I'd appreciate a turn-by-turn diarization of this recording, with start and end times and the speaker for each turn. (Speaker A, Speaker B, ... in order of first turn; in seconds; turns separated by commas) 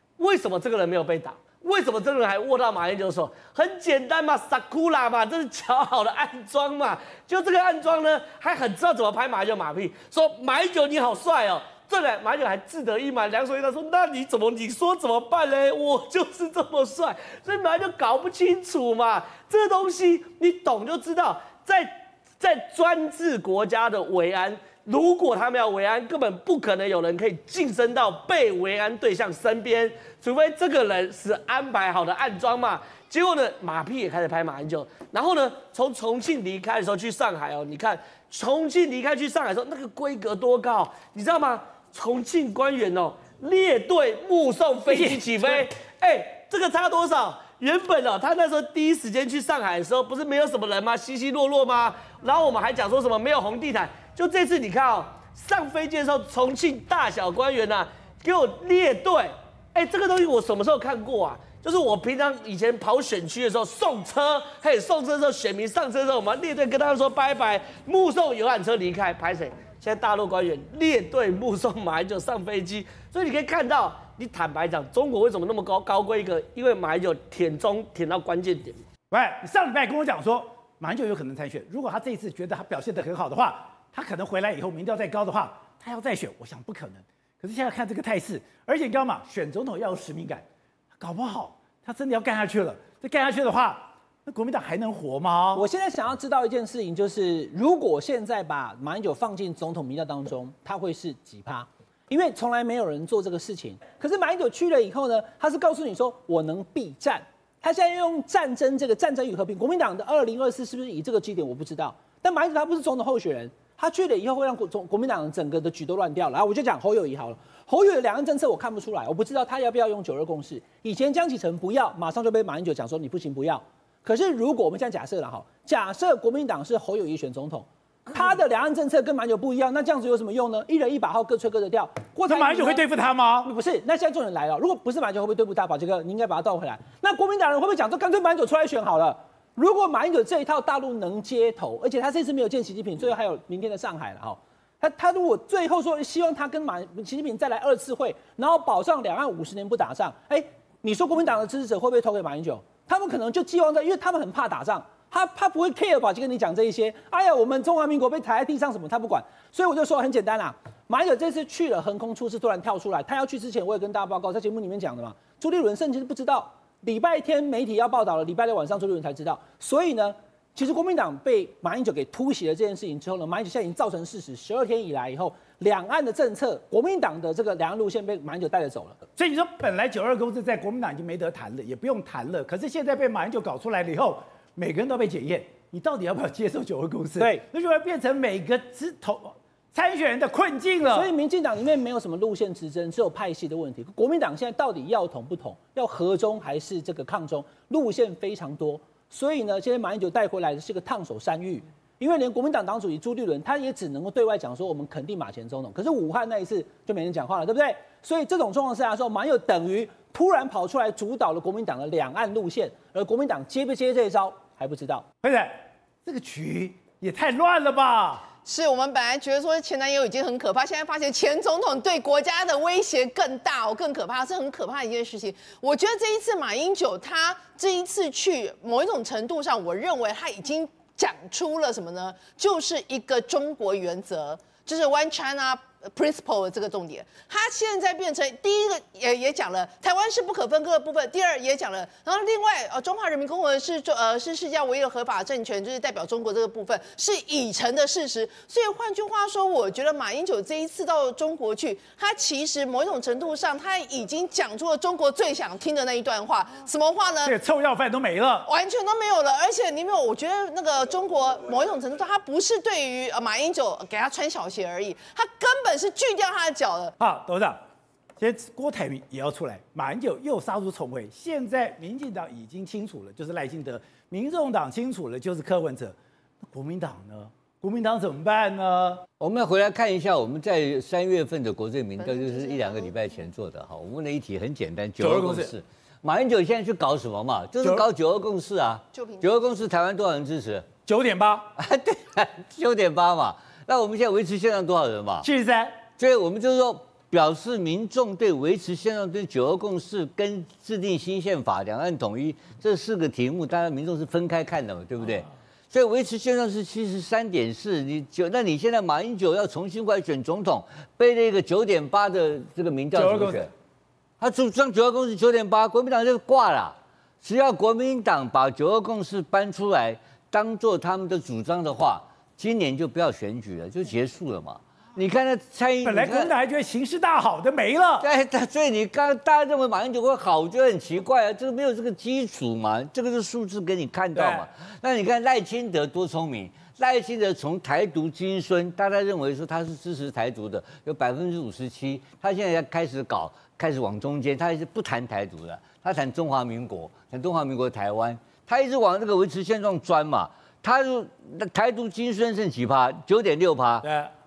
Speaker A: 0.2-78.8, Speaker B: 44.9-45.7, Speaker B: 79.1-90.5, Speaker B: 91.0-95.7, Speaker C: 95.5-132.9, Speaker B: 132.3-133.5, Speaker C: 133.4-179.0, Speaker B: 179.2-191.1, Speaker C: 187.2-187.4, Speaker C: 190.9-215.1, Speaker B: 215.2-218.3, Speaker D: 218.4-257.4, Speaker B: 257.2-258.5, Speaker D: 258.5-266.9, Speaker B: 267.0-267.6, Speaker B: 268.2-276.0, Speaker B: 276.5-279.0, Speaker E: 279.2-290.7, Speaker D: 282.0-282.9, Speaker B: 285.0-285.5, Speaker D: 288.9-289.3, Speaker B: 290.9-291.5, Speaker E: 291.6-295.3, Speaker B: 295.2-295.8, Speaker E: 296.0-313.5, Speaker B: 312.9-313.5, Speaker E: 314.2-326.3, Speaker B: 325.8-328.1, Speaker E: 328.0-353.9, Speaker B: 334.1-334.4, Speaker B: 353.8-354.1